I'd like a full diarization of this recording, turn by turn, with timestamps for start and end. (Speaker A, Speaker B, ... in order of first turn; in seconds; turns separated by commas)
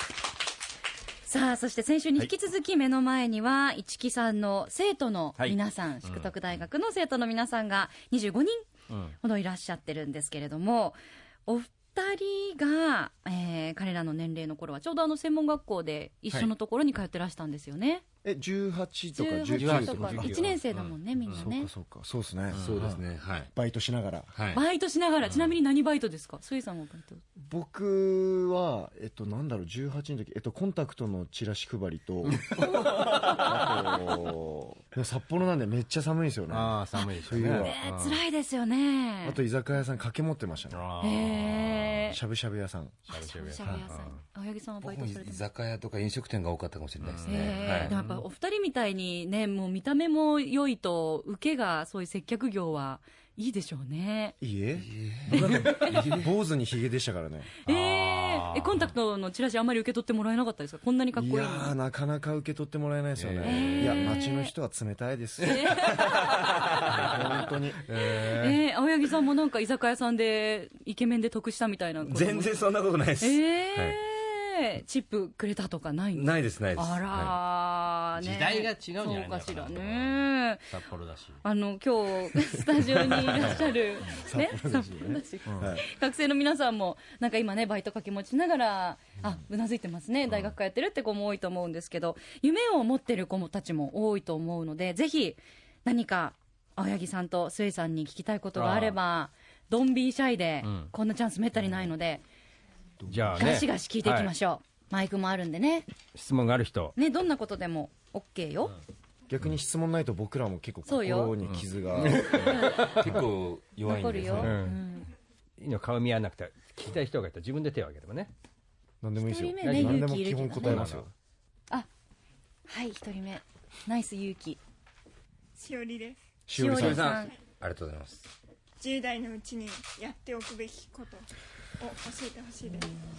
Speaker A: 1.3-8.7, Speaker B: 5.4-6.3, Speaker B: 8.9-9.2, Speaker A: 9.2-18.0, Speaker C: 18.2-20.5, Speaker A: 19.1-21.7, Speaker B: 19.6-21.4, Speaker C: 21.3-23.0, Speaker D: 22.5-23.5, Speaker B: 22.6-22.9, Speaker C: 23.5-24.3, Speaker D: 24.3-24.6, Speaker A: 24.5-27.2, Speaker C: 27.4-37.8, Speaker B: 32.3-33.7, Speaker B: 36.5-38.2, Speaker A: 37.0-39.4, Speaker C: 39.2-43.0, Speaker B: 40.7-42.0, Speaker A: 41.0-42.2, Speaker B: 43.1-44.2, Speaker A: 43.1-45.4, Speaker C: 43.6-43.9, Speaker D: 44.8-47.9, Speaker B: 47.0-48.2, Speaker A: 47.2-54.4, Speaker C: 54.4-57.5, Speaker D: 54.8-56.2, Speaker A: 55.5-55.9, Speaker B: 55.7-56.2, Speaker A: 57.6-61.8, Speaker B: 57.7-58.9, Speaker C: 61.1-66.3, Speaker B: 63.2-64.2, Speaker A: 63.4-64.5, Speaker A: 65.5-66.2, Speaker D: 66.0-67.0, Speaker C: 67.0-67.8, Speaker B: 67.9-68.6, Speaker A: 68.2-72.6, Speaker D: 72.0-74.0, Speaker A: 73.2-80.7, Speaker D: 76.2-77.4, Speaker B: 78.2-81.4, Speaker A: 81.4-102.2, Speaker C: 83.1-85.8, Speaker D: 83.2-83.5, Speaker B: 98.5-99.0, Speaker B: 100.6-100.9, Speaker C: 103.0-103.6, Speaker B: 103.1-104.3, Speaker A: 103.4-105.9, Speaker B: 106.2-107.0, Speaker A: 107.0-108.7, Speaker C: 109.3-112.6, Speaker A: 110.9-111.4, Speaker B: 111.5-113.2, Speaker A: 112.4-113.0, Speaker D: 112.5-114.6, Speaker A: 113.8-115.1, Speaker B: 114.4-114.8, Speaker B: 115.6-118.3, Speaker C: 119.0-121.1, Speaker A: 119.2-120.9, Speaker B: 119.6-121.1, Speaker A: 122.7-124.6, Speaker E: 125.6-126.2, Speaker C: 126.5-127.1, Speaker A: 126.5-127.3, Speaker D: 126.7-128.3, Speaker E: 128.8-131.3, Speaker E: 131.8-132.9